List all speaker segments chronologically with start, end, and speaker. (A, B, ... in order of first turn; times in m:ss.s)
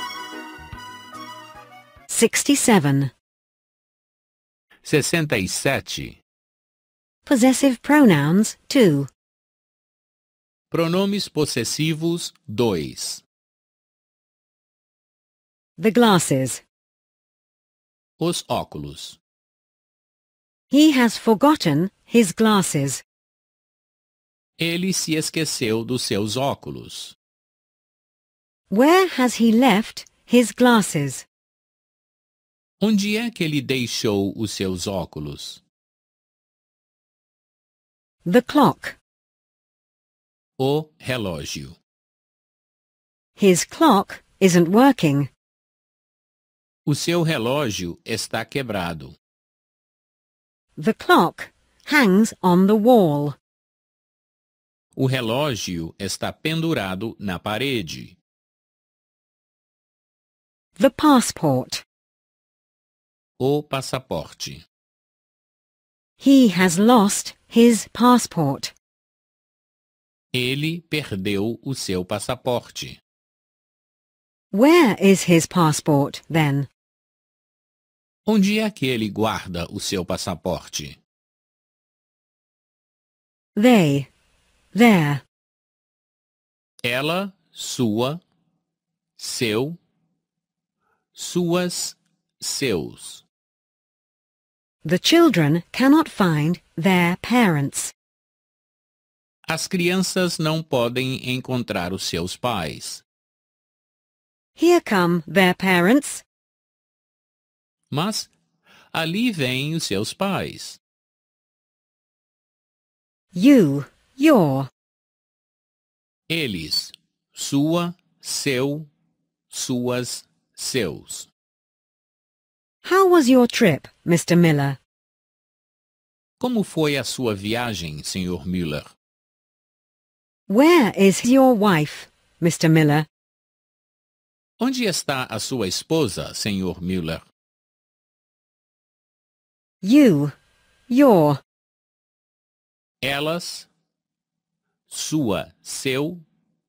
0:02.1-0:03.1 A
0:04.8-0:06.2 B
0:07.2-0:09.1 A
0:10.7-0:13.2 B
0:15.8-0:16.6 A
0:18.2-0:19.2 B
0:20.7-0:23.0 A
0:24.6-0:27.2 B
0:28.7-0:31.2 A
0:32.8-0:35.6 B
0:38.2-0:39.0 A
0:40.6-0:41.8 B
0:43.4-0:45.3 A
0:46.8-0:49.2 B
0:50.8-0:53.4 A
0:55.0-0:58.2 B
1:00.8-1:01.8 A
1:03.4-1:04.6 B
1:06.2-1:08.7 A
1:10.3-1:13.0 B
1:14.5-1:16.7 A
1:18.2-1:21.0 B
1:23.6-1:24.1 A
1:24.7-1:25.2 A
1:26.8-1:28.2 B
1:29.2-1:29.8 B
1:31.1-1:33.2 B
1:34.8-1:37.9 A
1:39.5-1:43.0 B
1:44.6-1:46.2 A
1:47.9-1:48.3 B
1:48.9-1:50.8 B
1:53.3-1:54.7 A
1:56.3-1:58.9 B
1:59.5-2:01.3 B
2:02.8-2:04.8 A
2:06.4-2:08.9 B
2:10.5-2:13.1 A
2:14.6-2:17.2 B
2:19.8-2:20.4 A
2:20.9-2:21.4 A
2:23.0-2:23.7 B
2:24.9-2:26.2 B